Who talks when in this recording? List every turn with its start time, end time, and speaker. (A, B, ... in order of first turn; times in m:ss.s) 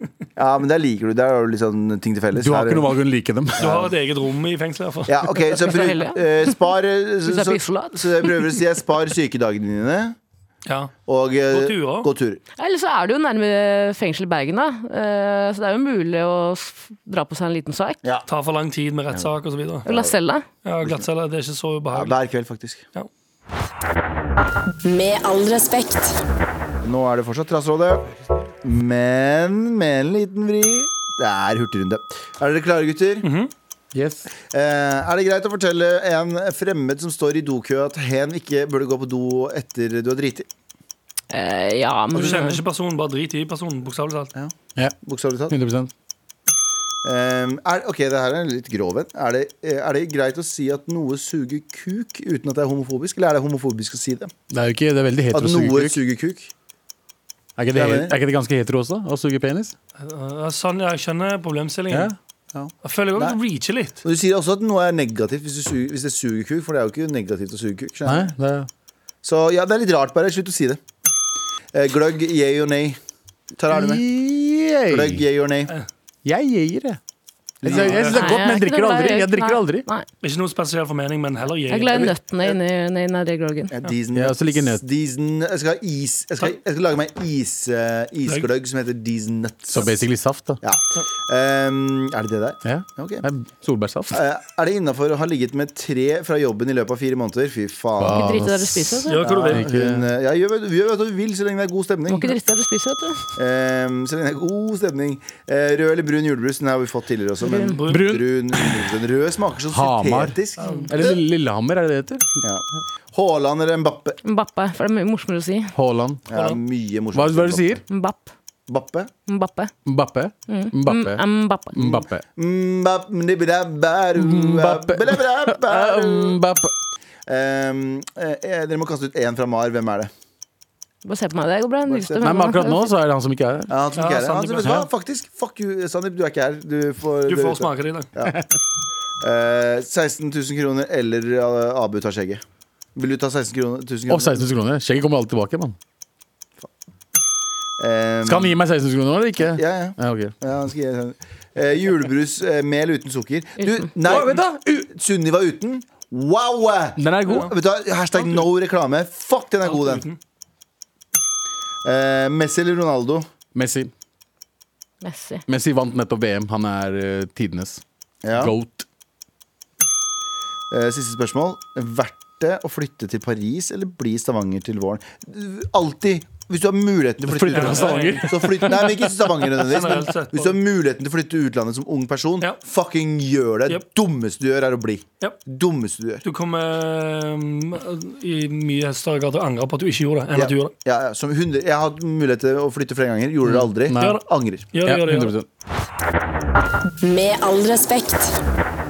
0:00.4-0:02.9 A
0:02.4-0:03.7 B
0:03.6-0:03.9 A
0:03.6-0:05.6 C
0:05.1-0:10.2 A
0:05.6-0:06.6 D
0:07.2-0:08.5 D
0:10.6-0:10.9 C
0:11.1-0:12.4 A
0:11.5-0:12.1 C
0:12.6-0:18.0 D
0:18.3-0:19.8 C
0:19.8-0:20.2 A
0:19.8-0:20.4 D
0:20.6-0:22.2 C
0:21.9-0:22.8 A
0:24.8-0:26.2 E
0:26.8-0:28.1 A
0:28.6-0:33.2 A
0:33.2-0:33.5 C
0:33.9-0:34.3 B
0:34.5-0:40.5 A
0:41.3-0:42.6 D
0:42.1-0:44.3 C
0:44.3-0:45.5 A
0:45.5-0:45.9 B
0:47.0-0:54.3 A
0:54.5-0:56.0 B
0:55.3-0:56.5 A
0:57.6-0:59.7 B
0:57.7-0:58.2 A
1:00.0-1:02.1 C
1:01.9-1:02.2 B
1:02.5-1:03.4 A
1:02.8-1:04.0 C
1:04.0-1:08.3 A
1:08.0-1:08.7 B
1:09.2-1:10.8 A
1:11.7-1:13.0 A
1:13.6-1:14.0 A
1:13.7-1:15.2 B
1:14.9-1:15.7 A
1:16.2-1:17.0 B
1:17.6-1:18.2 A
1:17.6-1:19.9 B
1:17.7-1:18.4 C
1:18.1-1:20.0 D
1:20.2-1:22.1 C
1:21.7-1:23.7 D
1:23.7-1:30.0 A
1:24.1-1:24.8 B
1:29.7-1:30.6 B
1:30.6-1:33.2 A
1:32.6-1:34.2 B
1:34.1-1:38.5 A
1:38.0-1:40.1 B
1:38.0-1:39.2 D
1:39.1-1:39.7 C
1:39.2-1:42.3 A
1:42.1-1:43.2 D
1:43.4-1:51.2 A
1:47.5-1:47.8 D
1:47.5-1:48.0 C
1:47.9-1:48.8 B
1:49.7-1:50.4 B
1:50.6-1:50.9 C
1:50.6-1:50.9 D
1:50.9-1:52.4 B
1:52.4-1:54.2 A
1:54.2-1:55.7 D
1:55.7-1:56.2 B
1:56.3-1:57.8 A
1:56.3-1:56.6 C
1:57.1-1:57.8 B
1:57.9-1:58.3 D
1:58.7-1:59.1 A
1:59.3-1:59.7 D
1:59.8-2:01.2 B
2:00.5-2:01.8 D
2:01.7-2:02.2 B
2:01.8-2:06.4 A
2:04.2-2:06.7 B
2:07.3-2:10.1 A
2:11.0-2:12.9 D
2:11.9-2:12.2 A
2:12.2-2:13.7 B
2:13.7-2:18.4 A
2:14.0-2:14.7 C
2:14.6-2:14.9 B
2:17.3-2:18.1 C
2:19.2-2:22.4 A
2:23.0-2:24.5 A
2:24.1-2:25.8 B
2:27.8-2:28.6 A
2:28.2-2:30.3 B
2:29.6-2:40.0 A
2:34.0-2:34.9 B
2:37.0-2:37.5 B
2:38.1-2:38.5 C
2:39.6-2:40.2 C
2:41.8-2:43.3 A
2:43.5-2:43.9 B
2:45.0-2:45.4 D
2:45.5-2:47.8 B
2:48.2-2:48.5 A
2:48.3-2:48.8 B
2:50.7-3:06.2 A
2:57.2-2:59.0 B
2:57.5-2:58.8 C
2:59.5-3:00.6 C
3:06.2-3:10.7 C
3:10.3-3:14.7 A
3:13.4-3:14.2 B
3:14.7-3:15.3 C
3:14.8-3:15.4 B
3:17.0-3:18.4 E